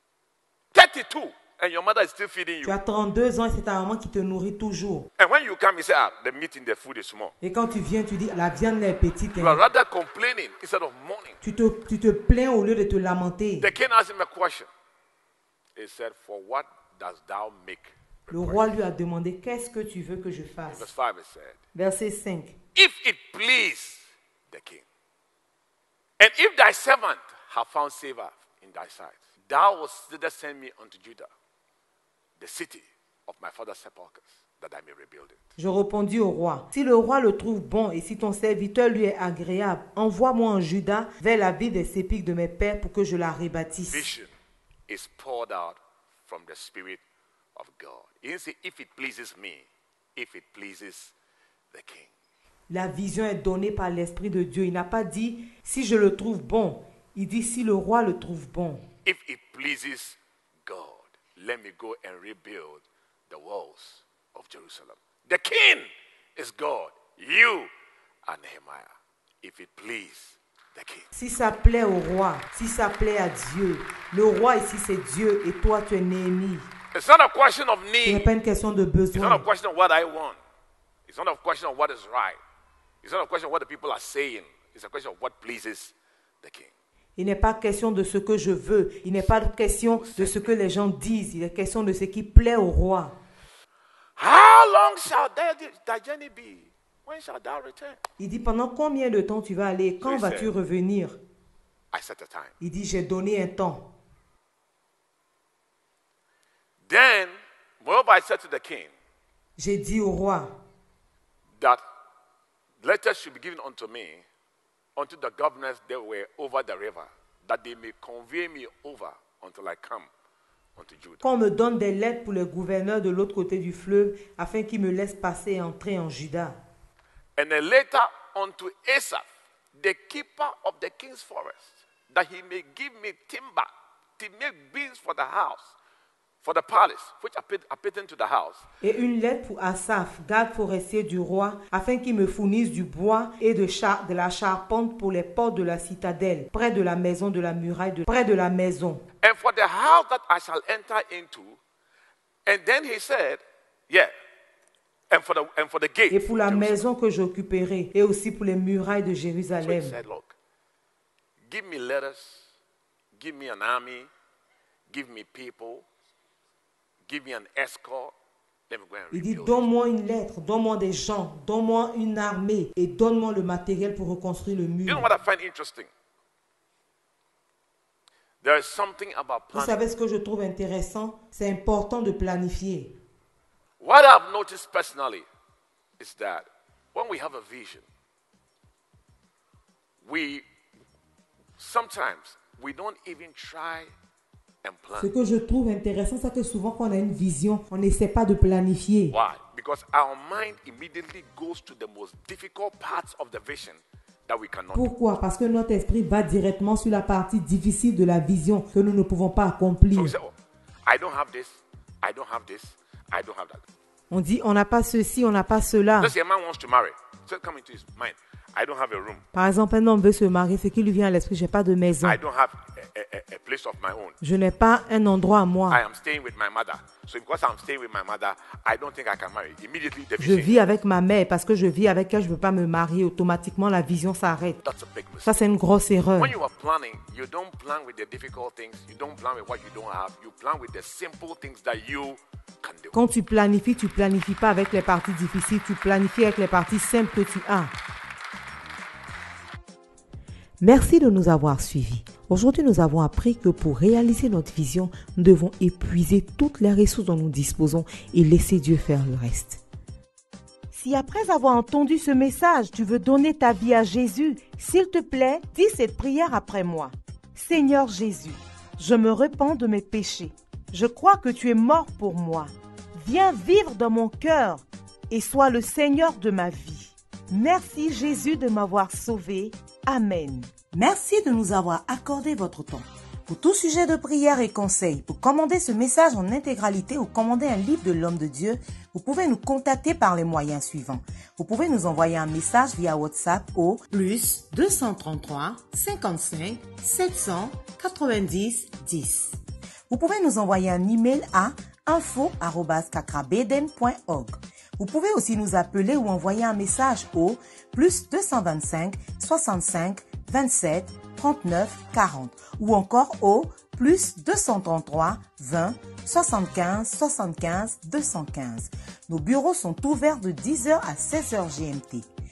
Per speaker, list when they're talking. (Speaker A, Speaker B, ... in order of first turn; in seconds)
Speaker A: 0.7-2.8, 5.2-7.3, 9.3-11.4, 13.6-14.7, 15.8-18.7, 20.7-21.6, 22.8-24.8, 26.2-31.3, 32.4-35.4, 43.9-44.3, 44.9-47.0, 47.5-51.1, 51.7-52.1, 59.0-67.7, 68.2-71.1, 76.9-78.3, 79.2-80.4, 81.1-82.4, 83.0-86.7, 89.9-90.5, 94.2-98.0, 100.0-100.5, 101.9-102.5, 106.9-108.9, 112.8-114.2, 115.0-120.1, 120.8-121.2, 127.4-135.7, 136.4-138.6, 149.2-151.6, 152.5-154.1, 155.1-156.9, 159.6-160.3, 161.5-162.5, 163.2-164.1, 164.9-165.8, 167.1-168.1, 168.7-169.7, 174.9-175.9, 178.4-179.8, 183.8-185.3, 186.0-187.8, 190.0-190.4, 191.6-193.9, 194.6-195.1, 199.1-204.9, 209.9-210.3, 210.9-213.6, 216.0-219.2, 222.0-224.2, 225.7-230.7, 234.6-235.4, 236.2-243.0
Speaker B: 2.6-5.1, 7.4-9.6, 11.4-13.7, 18.3-20.9, 21.7-22.6, 35.6-44.0, 52.7-58.9, 71.2-76.7, 78.0-79.5, 87.2-93.2, 98.2-101.2, 102.6-103.9, 109.6-110.6, 121.2-126.6, 138.8-149.0, 156.1-160.0, 169.1-175.1, 179.5-182.9, 195.0-199.2, 204.7-210.1, 214.1-216.1, 219.3-222.2, 224.2-225.8, 230.2-234.6, 235.2-236.4, 242.9-247.7, 250.6-259.6, 260.7-299.4, 299.9-322.1